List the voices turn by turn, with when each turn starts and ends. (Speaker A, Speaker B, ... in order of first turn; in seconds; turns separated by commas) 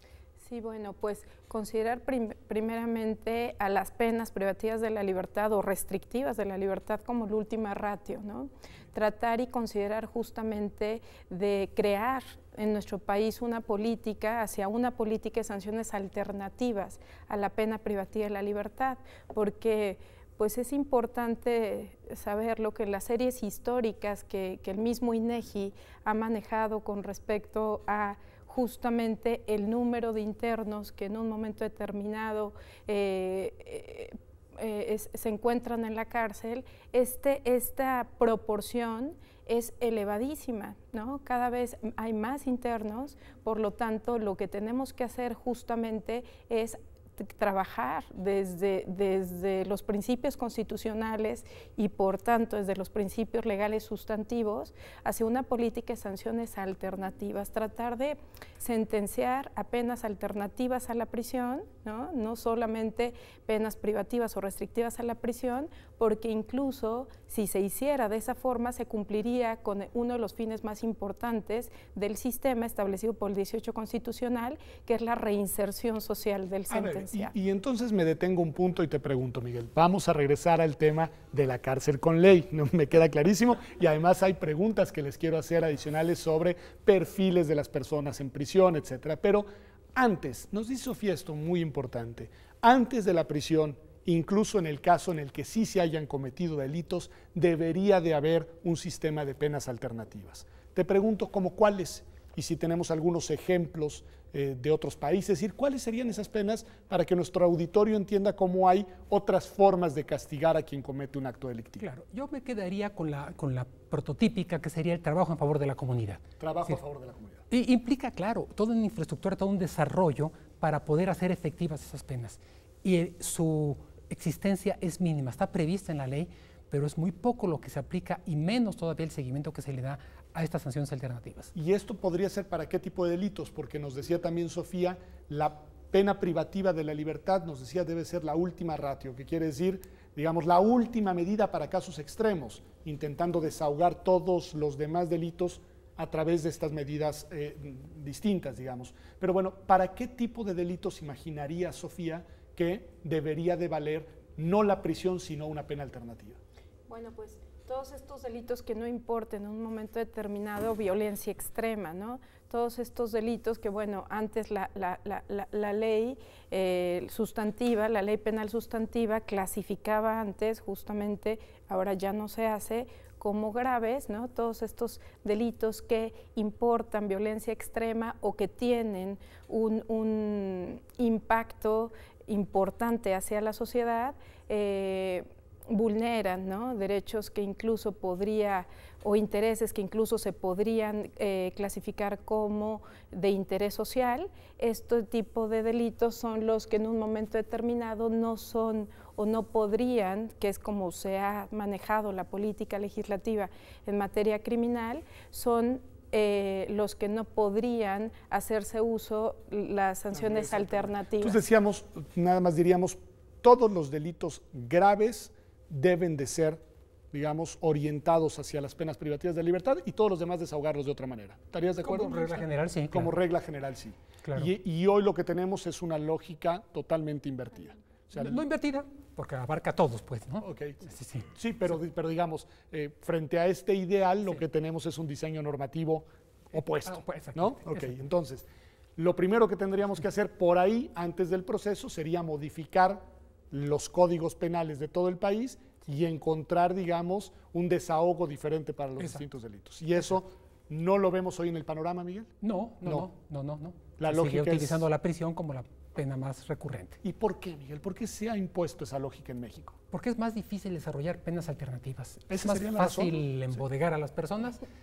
Speaker A: 0.4-77.3, Speaker B: 76.7-111.8, Speaker C: 111.8-116.8, Speaker B: 116.4-117.4, Speaker C: 117.5-131.5, Speaker B: 131.5-156.4, Speaker A: 156.9-211.4, Speaker B: 210.1-216.6, Speaker B: 217.1-228.4, Speaker C: 221.8-223.2, Speaker C: 224.2-224.5, Speaker C: 228.2-231.3, Speaker B: 230.4-252.3, Speaker C: 236.8-237.9, Speaker C: 252.4-257.0, Speaker B: 252.8-253.1, Speaker B: 254.0-254.9, Speaker B: 257.0-259.8, Speaker C: 259.9-264.6, Speaker B: 262.3-263.2